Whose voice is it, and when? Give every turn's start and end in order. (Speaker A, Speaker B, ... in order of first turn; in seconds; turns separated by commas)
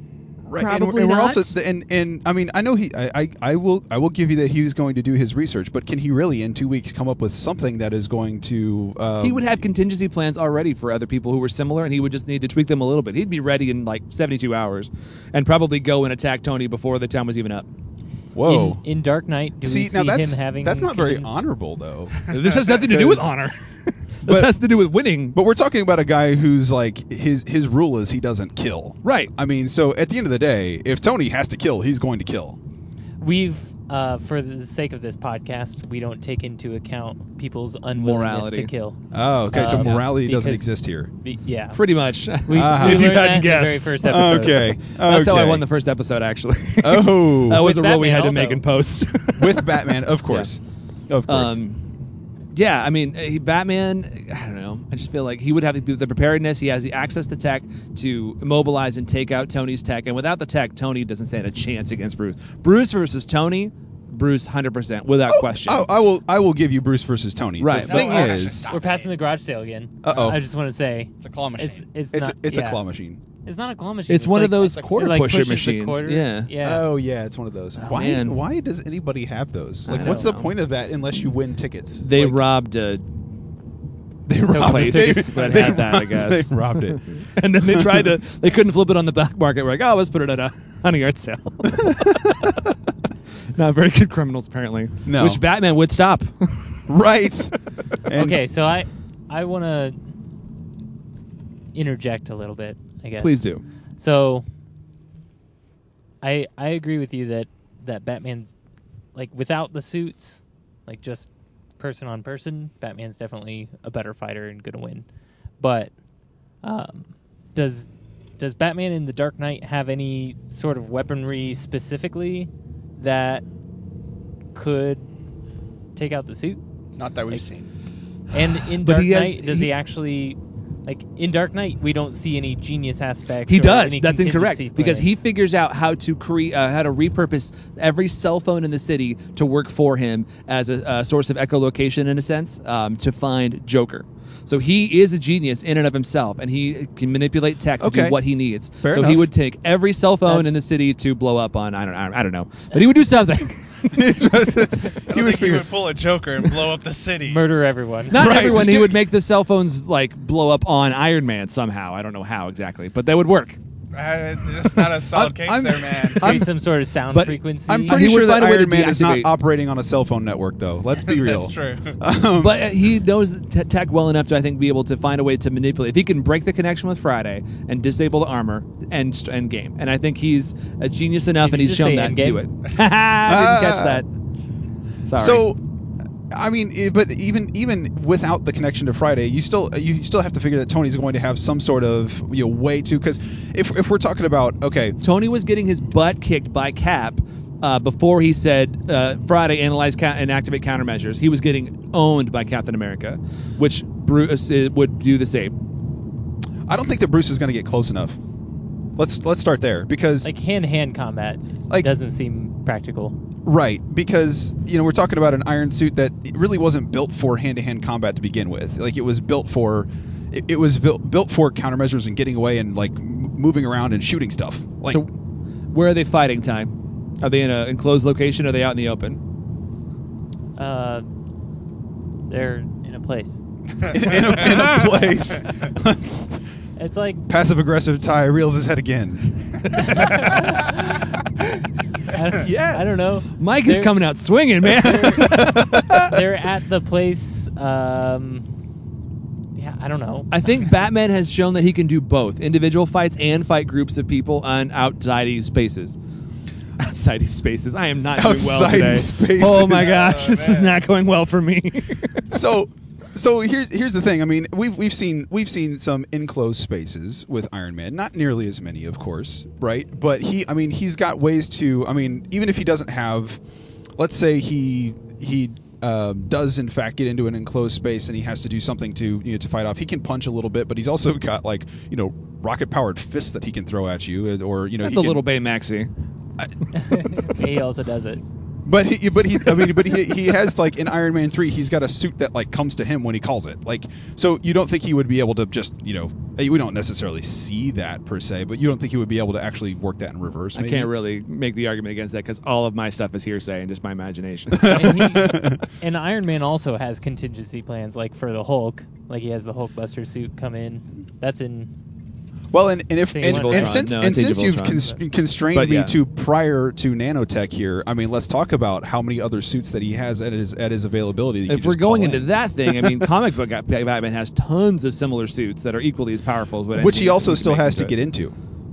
Speaker A: 0.5-9.6, Speaker B: 0.5-1.5, Speaker B: 9.2-17.7, Speaker A: 18.3-18.8, Speaker C: 18.4-21.3, Speaker A: 19.6-22.2, Speaker B: 22.3-25.4, Speaker A: 22.8-23.3, Speaker A: 24.3-24.5, Speaker A: 25.3-32.6, Speaker B: 29.0-29.3, Speaker C: 33.2-41.8, Speaker B: 38.0-38.7, Speaker A: 39.1-41.1, Speaker B: 41.7-50.5, Speaker C: 42.5-44.7, Speaker A: 42.5-43.2, Speaker A: 44.0-45.7, Speaker A: 46.8-47.6, Speaker C: 47.6-48.6, Speaker A: 49.4-51.6, Speaker B: 51.3-51.8, Speaker B: 52.5-65.9, Speaker A: 65.3-68.7, Speaker B: 67.6-68.2, Speaker D: 67.8-69.2, Speaker C: 67.9-72.8, Speaker A: 70.0-70.4, Speaker D: 71.2-71.9, Speaker A: 72.1-73.2, Speaker C: 73.5-76.8, Speaker B: 74.1-76.5, Speaker A: 76.6-82.4, Speaker B: 77.8-78.4, Speaker B: 79.9-80.5, Speaker C: 79.9-80.3, Speaker B: 82.0-83.1, Speaker A: 84.3-87.1, Speaker C: 84.5-85.8, Speaker B: 84.5-92.7, Speaker A: 87.6-88.1, Speaker A: 91.8-92.3, Speaker B: 93.5-96.8, Speaker A: 95.1-95.4, Speaker A: 96.9-97.5, Speaker A: 98.1-98.4, Speaker C: 98.1-100.0, Speaker C: 101.7-103.4, Speaker B: 103.2-103.6, Speaker C: 104.0-104.5, Speaker C: 106.2-108.5, Speaker C: 109.2-115.1, Speaker C: 115.6-115.9, Speaker C: 116.6-123.5, Speaker C: 124.5-125.1, Speaker C: 126.0-126.6, Speaker D: 127.0-127.7, Speaker C: 128.3-135.2, Speaker B: 128.6-129.7, Speaker B: 133.5-154.1, Speaker A: 147.8-148.2, Speaker A: 148.8-149.3, Speaker A: 153.9-155.7, Speaker D: 155.1-157.4, Speaker C: 157.3-158.2, Speaker B: 158.1-163.6, Speaker A: 158.1-159.0, Speaker D: 163.9-166.3, Speaker A: 165.0-166.5, Speaker C: 166.2-168.0, Speaker B: 167.1-169.3, Speaker A: 167.7-172.7, Speaker D: 171.0-172.0, Speaker B: 172.4-184.1, Speaker C: 181.4-182.4, Speaker A: 183.2-184.0, Speaker B: 185.1-185.4, Speaker A: 185.2-185.6, Speaker A: 186.3-195.0, Speaker B: 195.0-205.6, Speaker A: 206.7-208.2, Speaker A: 209.0-210.3, Speaker C: 210.2-213.2, Speaker A: 213.5-225.0, Speaker B: 225.7-229.2, Speaker C: 230.6-231.1, Speaker C: 232.3-233.4, Speaker A: 233.9-236.4, Speaker C: 236.8-237.3, Speaker A: 237.3-239.6, Speaker C: 239.8-241.2, Speaker C: 242.1-243.9, Speaker B: 242.4-246.2, Speaker C: 244.8-245.4, Speaker C: 245.9-248.5, Speaker C: 249.6-250.3, Speaker B: 250.3-256.0, Speaker B: 256.8-262.4, Speaker A: 258.1-260.2, Speaker D: 259.7-260.8, Speaker A: 262.3-273.4, Speaker A: 274.0-285.2, Speaker B: 284.8-285.9, Speaker C: 286.7-288.2, Speaker A: 288.6-300.9, Speaker B: 300.5-305.1, Speaker A: 304.5-305.6, Speaker C: 304.6-311.7, Speaker A: 312.5-323.1, Speaker C: 313.1-314.0, Speaker B: 313.2-314.9, Speaker B: 315.5-315.9, Speaker B: 321.5-327.9, Speaker A: 326.7-328.4